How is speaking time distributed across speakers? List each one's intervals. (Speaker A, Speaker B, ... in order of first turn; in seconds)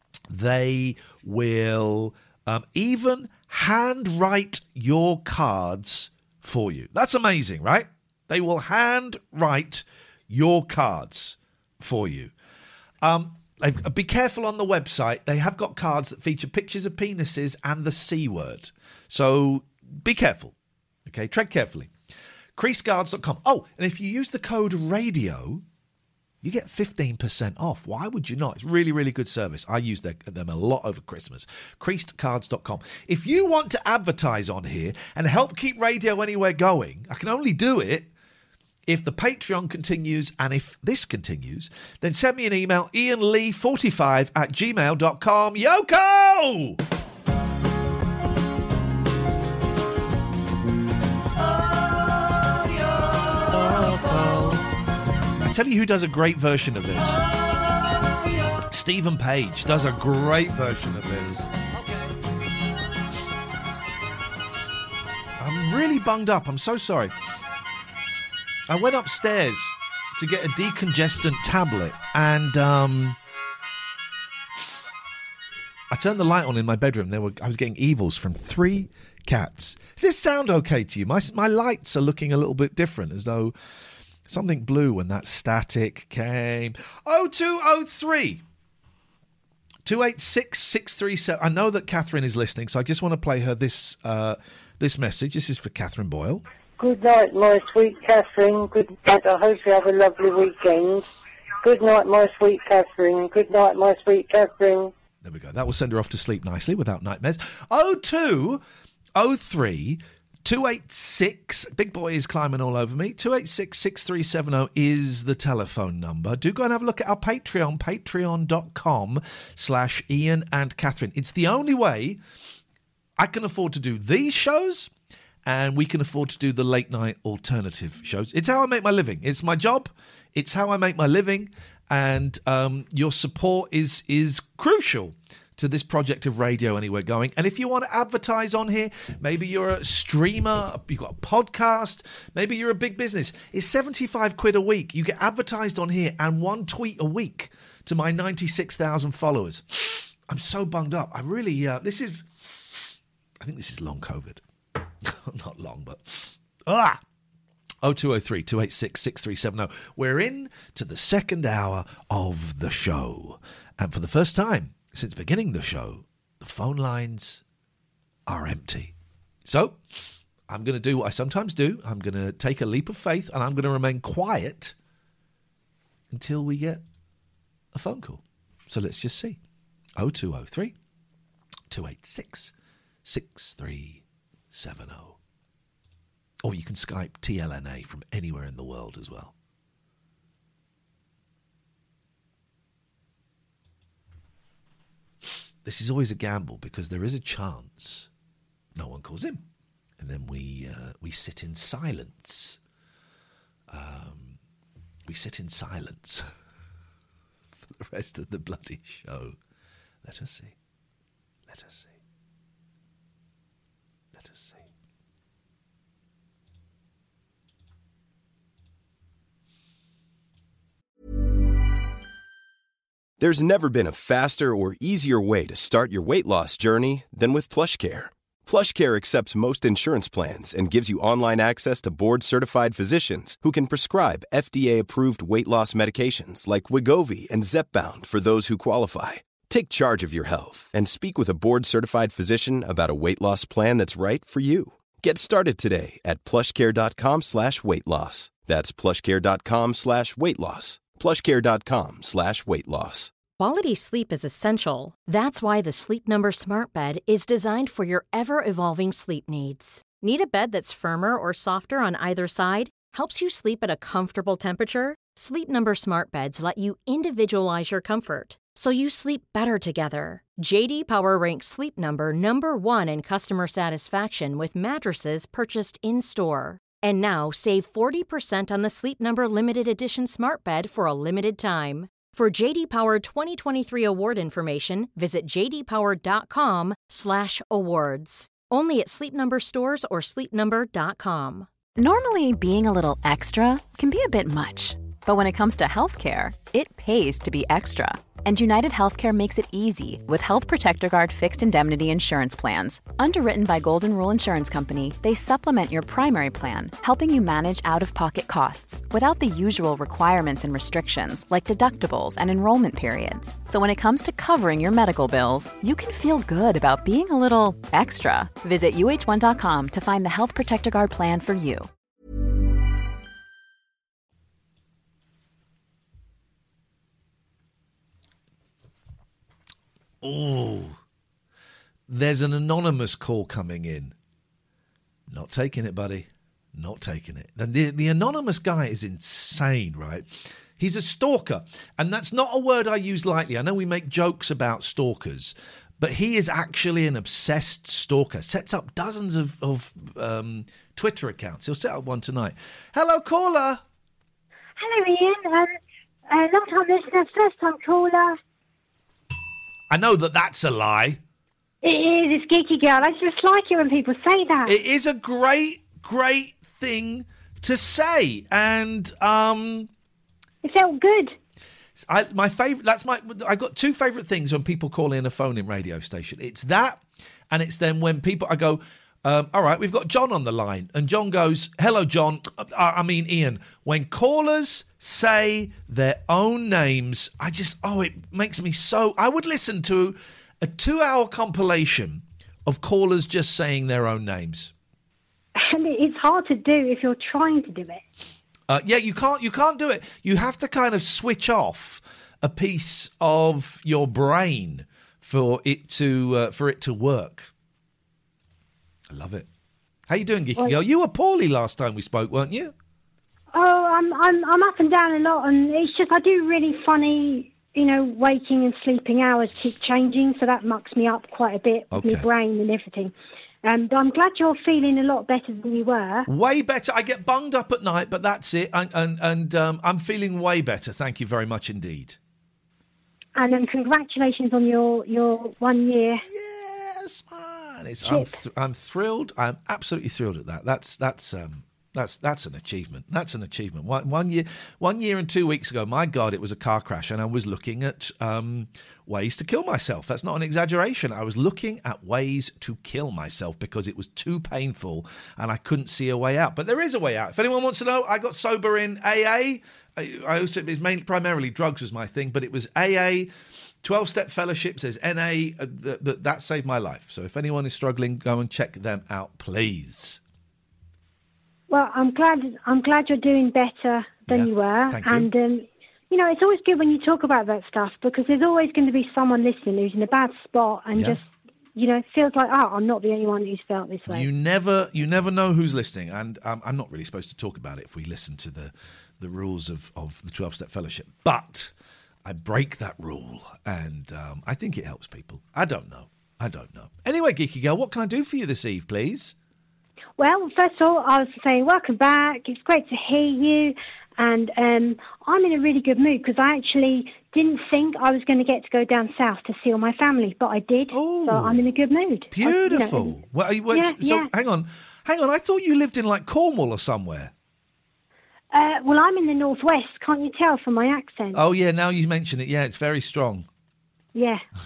Speaker A: 0.3-12.3, 13.0-20.5, 21.1-21.9, 22.6-25.6, 26.4-38.1, 38.9-46.8, 55.4-57.2, 58.7-61.5, 65.4-67.2, 68.7-73.2, 75.9-83.5, 84.3-88.4, 89.8-96.4, 105.2-108.6, 109.2-122.2, 123.2-124.9, 125.4-154.4, 155.0-157.0, 157.8-167.4, 168.2-168.9, 169.4-169.8, 170.5-174.7, 176.1-176.8, 177.7-179.4, 180.0-180.7, 181.7-182.5, 183.0-185.2, 186.4-189.3, 195.6-198.1, 198.7-199.4, 200.0-202.6, 203.7-204.4, 205.1-206.2, 207.6-209.4, 210.0-210.6, 211.5-212.0, 214.1-214.7, 330.0-330.8, 331.9-333.9, 335.1-353.6, 359.7-361.0, 364.4-369.7, 371.8-394.5, 398.5-407.3, 408.9-409.3, 409.9-412.5, 421.7-422.1, 426.1-432.0, 436.0-470.0, 474.1-475.1, 480.7-481.0, 483.9-491.5, 492.0-499.1, 510.7-511.4, 512.1-517.1, 521.1-523.3
Speaker B: 96.8-101.0, 101.6-104.9
Speaker C: 223.2-253.1
Speaker D: 253.4-291.5
Speaker E: 291.8-321.7
Speaker F: 354.6-355.5, 356.1-358.2, 361.6-364.6, 370.4-371.1, 395.4-397.8, 413.3-422.9, 423.4-426.1, 433.1-436.0, 437.8-438.1, 471.5-484.1, 500.0-513.0, 513.5-514.1, 518.3-521.2, 523.9-524.2